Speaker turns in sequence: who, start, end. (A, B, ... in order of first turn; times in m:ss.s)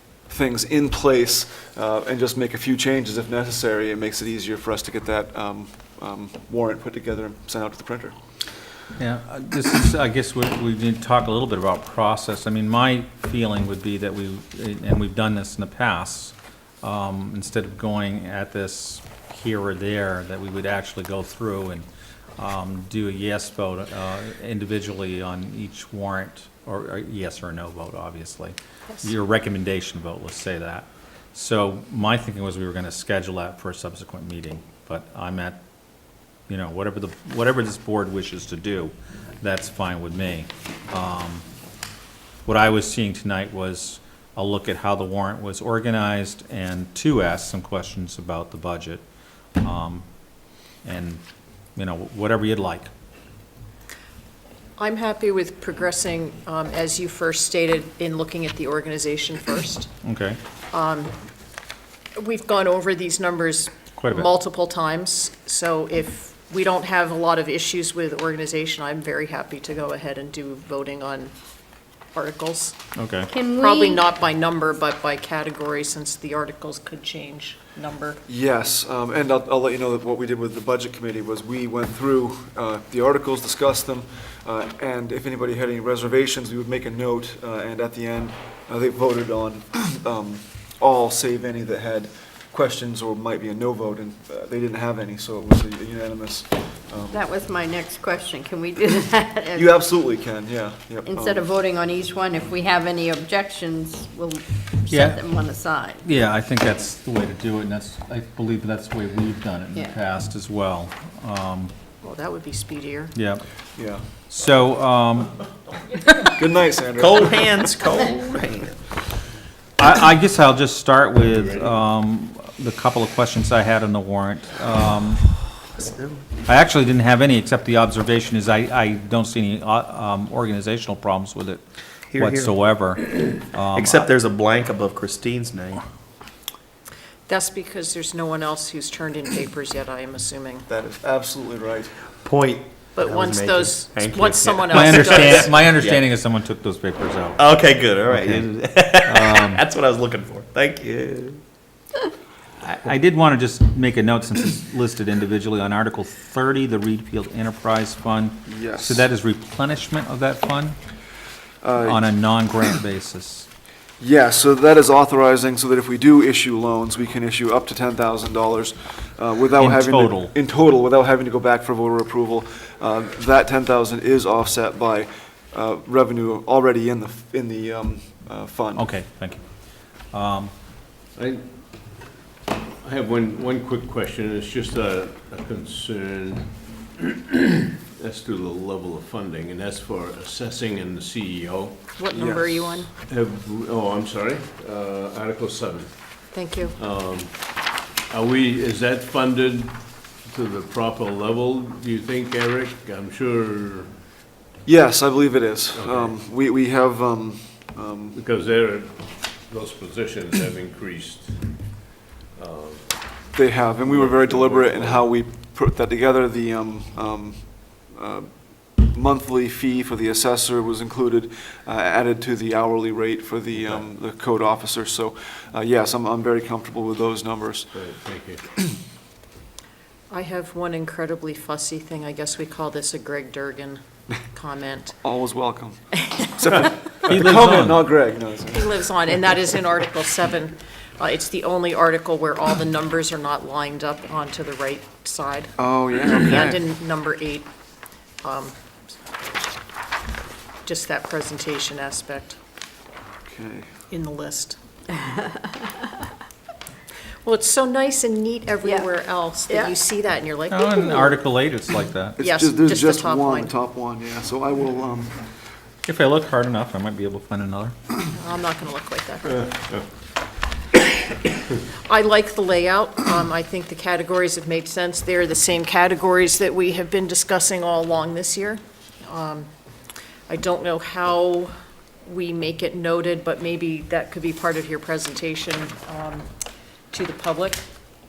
0:00.3-0:08.2 A
0:09.0-0:21.9 B
0:22.4-0:35.6 B
0:36.5-0:41.4 B
0:42.4-0:49.0 B
0:49.6-0:50.0 B
0:50.8-0:51.2 B
0:51.8-0:52.9 B
0:54.8-0:59.9 C
1:00.0-1:00.4 B
1:00.7-1:01.1 C
1:02.2-1:11.3 C
1:04.0-1:04.3 B
1:12.1-1:12.8 C
1:13.0-1:13.3 B
1:13.3-1:14.0 D
1:13.4-1:18.2 C
1:18.3-1:37.2 A
1:37.1-1:39.8 D
1:39.5-1:41.5 A
1:41.0-1:46.0 D
1:44.9-1:45.3 B
1:46.0-1:51.7 B
1:52.0-1:53.1 C
1:53.1-1:53.4 B
1:53.8-1:54.0 A
1:54.3-1:55.4 B
1:56.2-1:57.8 A
1:57.0-1:58.8 E
1:59.8-2:05.2 B
2:01.2-2:01.7 F
2:05.8-2:06.2 E
2:06.4-2:11.6 B
2:12.1-2:12.5 E
2:12.1-2:14.1 B
2:13.9-2:15.8 E
2:17.3-2:20.7 C
2:20.7-2:21.9 A
2:22.2-2:25.2 E
2:23.0-2:25.6 C
2:24.7-2:29.6 B
2:27.4-2:31.4 E
2:32.6-2:40.8 B
2:38.5-2:39.1 A
2:41.6-2:42.0 A
2:41.8-2:43.5 B
2:44.0-2:58.9 A
2:49.6-2:50.3 B
2:58.8-3:00.5 B
3:01.2-3:02.1 F
3:02.8-3:23.9 F
3:12.0-3:12.9 C
3:16.3-3:16.7 C
3:24.6-3:28.2 A
3:25.7-3:26.2 F
3:28.1-3:35.1 F
3:33.3-3:47.7 A
3:43.6-3:43.9 F
3:47.7-3:48.4 F
3:50.1-3:55.0 C
3:55.0-3:58.7 A
3:56.0-3:56.6 C
3:57.1-3:57.8 B
3:58.5-4:05.5 C
4:05.6-4:06.6 A
4:06.2-4:07.5 C
4:08.2-4:08.5 C
4:10.6-4:12.4 C
4:13.2-4:13.7 A
4:13.9-4:14.6 C
4:17.2-4:21.1 C
4:20.5-4:22.2 B
4:22.2-4:23.5 C
4:22.2-4:25.3 A
4:25.9-4:27.7 B
4:28.1-4:29.5 C
4:31.8-4:39.5 C
4:40.3-4:41.5 C
4:42.0-4:46.3 C
4:46.9-4:47.6 C